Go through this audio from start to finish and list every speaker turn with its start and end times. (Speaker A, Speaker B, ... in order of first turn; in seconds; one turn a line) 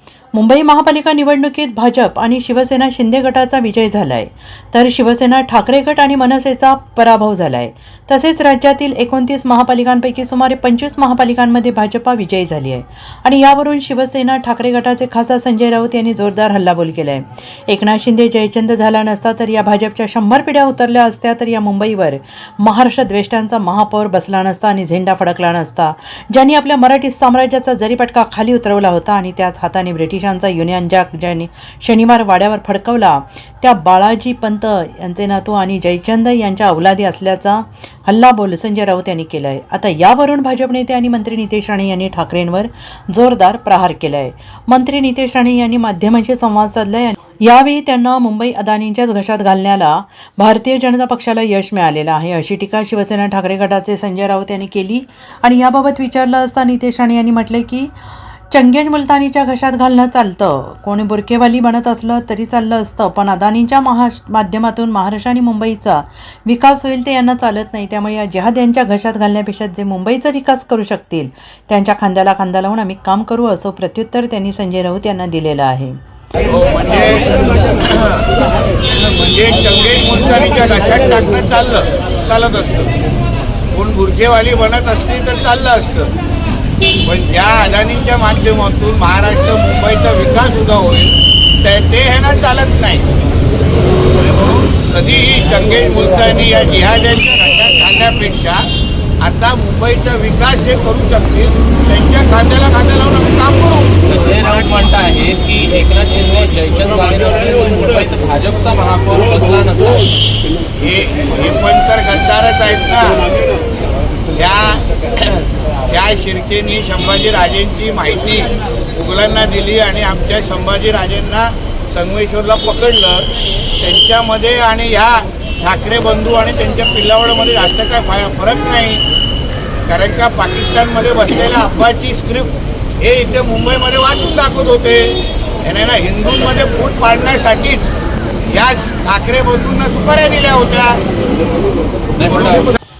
Speaker A: 0.3-57.9
Speaker A: 58.5-76.0
Speaker B: 76.4-78.2
Speaker B: 78.8-82.9
Speaker B: 83.7-86.1
Speaker B: 87.0-93.1
Speaker B: 94.2-98.7
Speaker B: 99.2-104.0
Speaker C: 104.0-110.2
Speaker B: 110.8-113.3
Speaker B: 114.3-129.0
Speaker B: 129.9-137.9
Speaker B: 138.5-141.0
Speaker C: 142.2-142.7
Speaker B: 142.3-142.8